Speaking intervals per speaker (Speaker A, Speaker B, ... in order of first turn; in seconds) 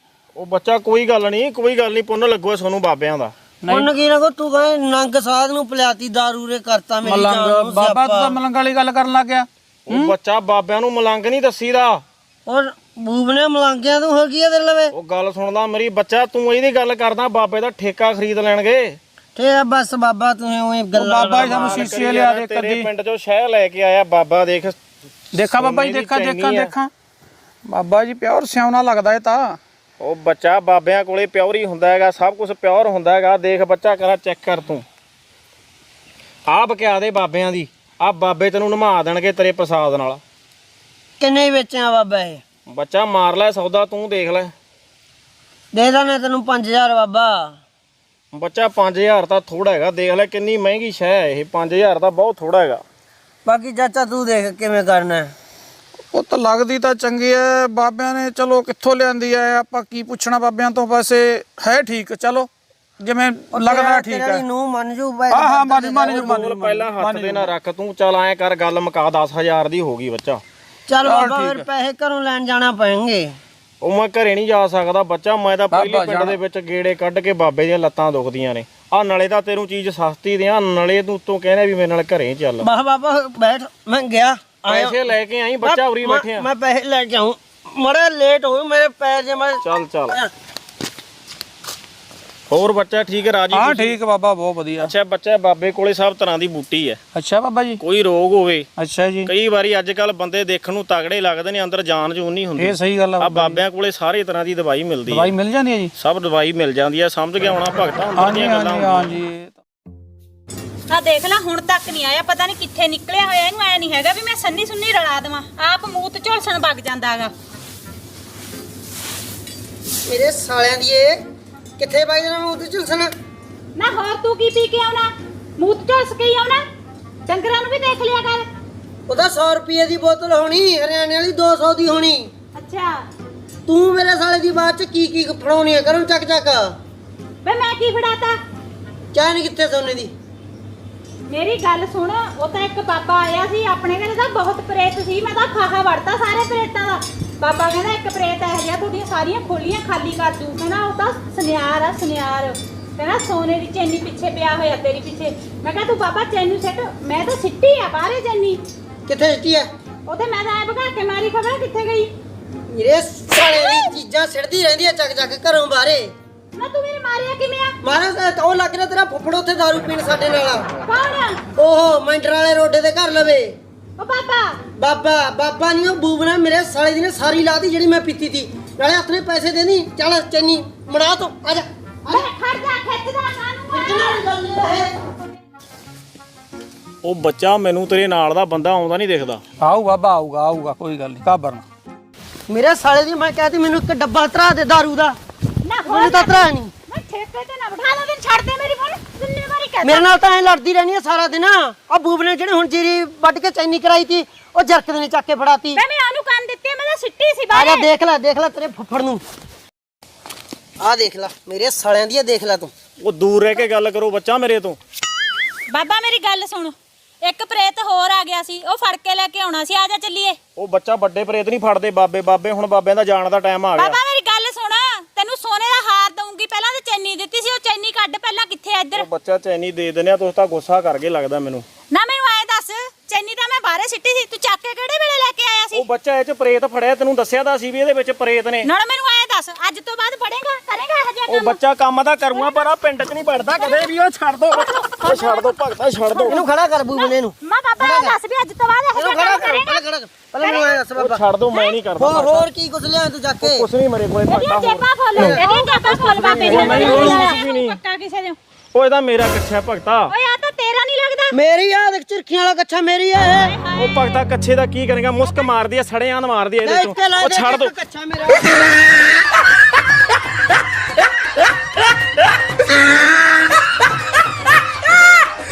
Speaker A: 0.3-3.3, 9.9-12.0, 14.9-19.0, 21.5-24.8, 25.4-26.7, 30.0-34.9, 36.5-40.2, 42.7-44.5, 48.3-52.8, 66.1-70.4, 73.8-82.7, 84.7-86.5, 89.6-90.2, 92.5-94.0, 94.8-97.0, 97.8-98.7, 99.2-105.3, 106.0-109.2, 187.0-189.4, 213.0-214.8, 220.6-224.0, 229.0-231.7, 235.7-238.7, 241.3-246.4, 251.0-252.5, 253.4-255.4, 256.2-257.8, 258.7-260.1, 263.8-267.7
Speaker B: 3.6-3.9, 7.0-10.1, 20.9-22.9, 25.3-26.9, 27.6-29.6, 56.1-62.5, 63.0-64.4, 65.3-67.5, 71.0-71.7, 75.7-76.4, 93.5-94.9, 97.1-97.8, 98.8-99.3, 102.6-103.6, 105.1-105.9, 108.2-109.6, 189.6-191.7
Speaker C: 3.7-8.4, 12.5-14.9, 19.4-22.0, 41.2-42.4, 45.7-47.5, 53.5-55.3, 63.5-66.2, 70.9-73.4, 82.6-85.1, 85.6-90.3, 120.1-121.2, 121.8-123.1, 129.1-132.3, 133.7-136.7, 139.1-140.1, 159.1-159.7, 162.7-166.1, 167.8-170.7, 171.6-173.6, 174.8-182.2, 183.7-184.9, 192.5-195.2, 195.9-196.7, 199.8-205.8, 207.5-209.2, 210.8-212.7, 246.3-248.2, 248.9-251.2, 252.0-253.6, 255.2-257.3, 261.3-263.5, 266.6-268.7
Speaker D: 110.9-117.3, 123.8-126.6, 127.2-128.5, 132.6-133.0, 137.4-138.4, 141.3-158.6, 160.1-162.1, 163.4-163.9, 166.6-167.8, 170.9-171.4, 174.0-174.6, 182.1-184.2, 195.6-200.2, 205.8-207.9, 215.7-220.4, 223.8-229.1, 231.9-235.8, 238.6-241.6, 242.3-242.7, 243.5-243.9, 244.5-246.4, 246.9-249.8, 250.4-250.8, 254.3-258.4, 260.1-261.4, 263.4-264.2